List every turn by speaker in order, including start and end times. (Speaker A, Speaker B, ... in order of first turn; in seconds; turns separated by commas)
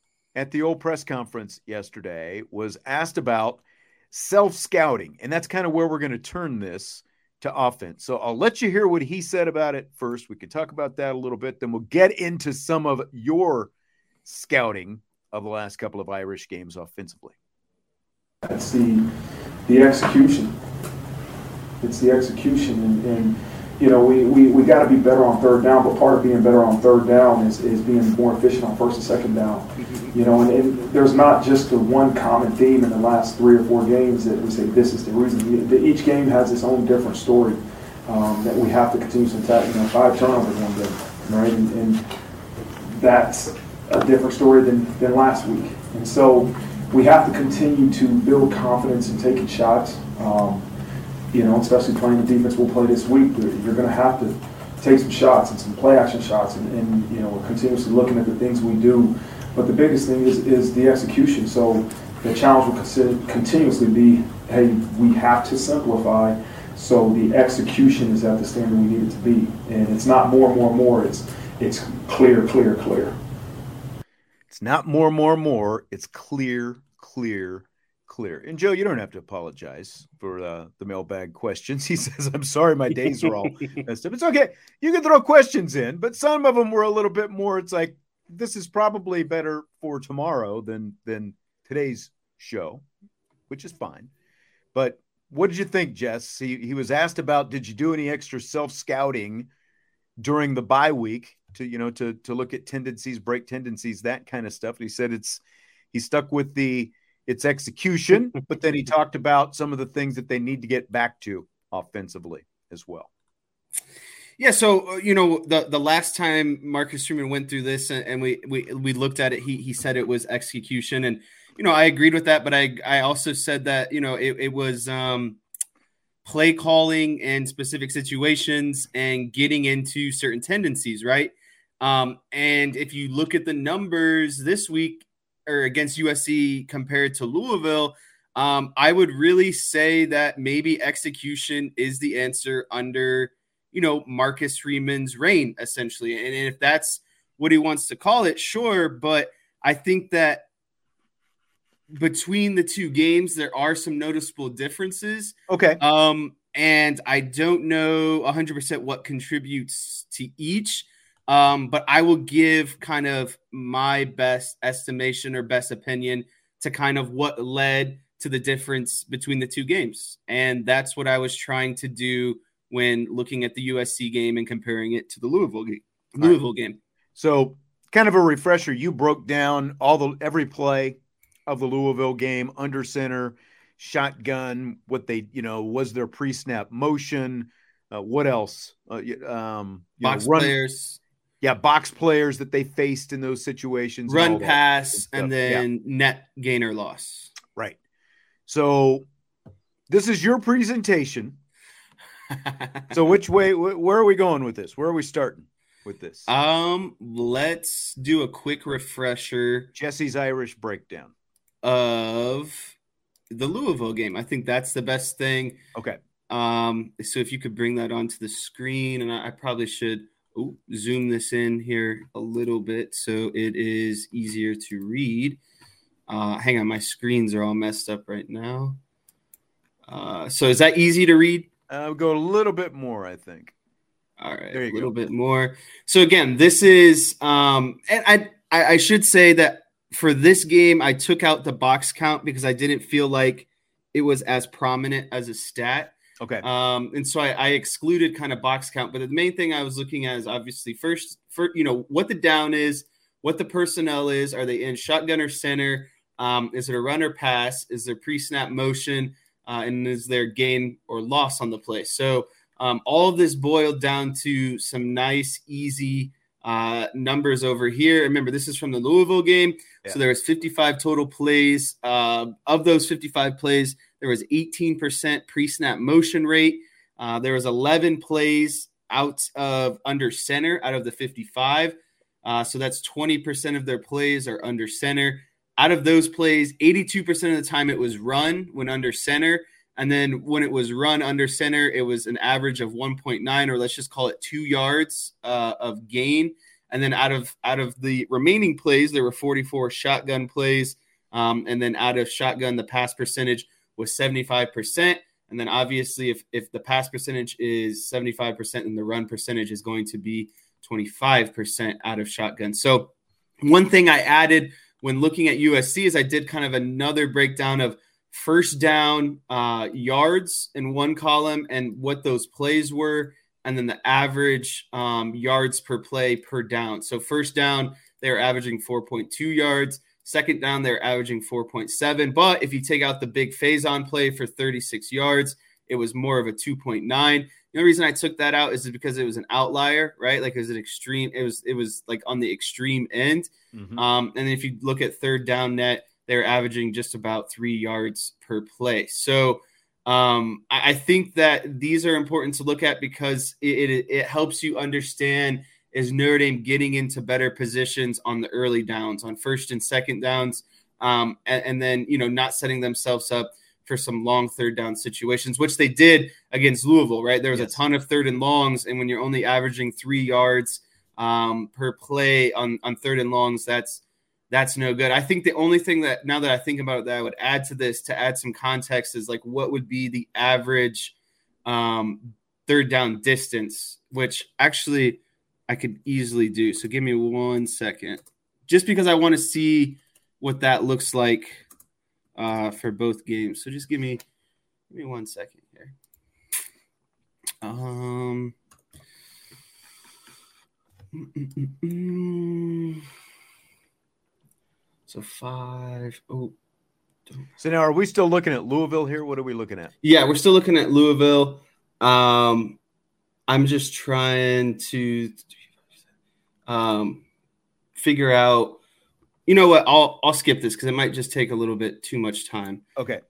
Speaker A: 0.3-13.7, Speaker A: 14.2-17.4, Speaker B: 18.4-19.1, Speaker B: 19.7-20.6, Speaker B: 21.8-42.0, Speaker B: 42.9-50.7, Speaker B: 51.3-73.2, Speaker A: 74.5-92.8, Speaker A: 93.5-94.1, Speaker A: 94.7-99.5, Speaker A: 100.2-105.4, Speaker A: 105.9-113.1, Speaker C: 114.4-125.4, Speaker C: 126.2-150.5, Speaker C: 151.9-176.8, Speaker A: 155.5-155.8, Speaker A: 177.2-190.6, Speaker C: 190.0-191.0, Speaker A: 191.4-195.7, Speaker C: 194.1-197.3, Speaker A: 198.5-199.1, Speaker A: 199.9-201.4, Speaker A: 202.9-206.3, Speaker C: 206.3-209.7, Speaker A: 209.7-211.1, Speaker C: 211.6-212.8, Speaker C: 213.3-215.6, Speaker A: 215.7-216.0, Speaker C: 216.3-225.4, Speaker C: 226.1-228.8, Speaker C: 229.9-231.5, Speaker A: 231.7-233.5, Speaker C: 234.2-312.9, Speaker A: 234.5-234.9, Speaker A: 246.2-246.5, Speaker C: 313.4-391.4, Speaker A: 343.5-343.8, Speaker C: 392.2-394.0, Speaker C: 394.7-395.7, Speaker C: 397.4-398.3, Speaker C: 401.0-402.8, Speaker C: 404.9-406.3, Speaker A: 407.4-409.7, Speaker C: 409.8-412.6, Speaker C: 413.3-415.3, Speaker C: 416.5-417.0, Speaker C: 417.8-418.6, Speaker C: 419.3-422.6, Speaker A: 422.8-423.0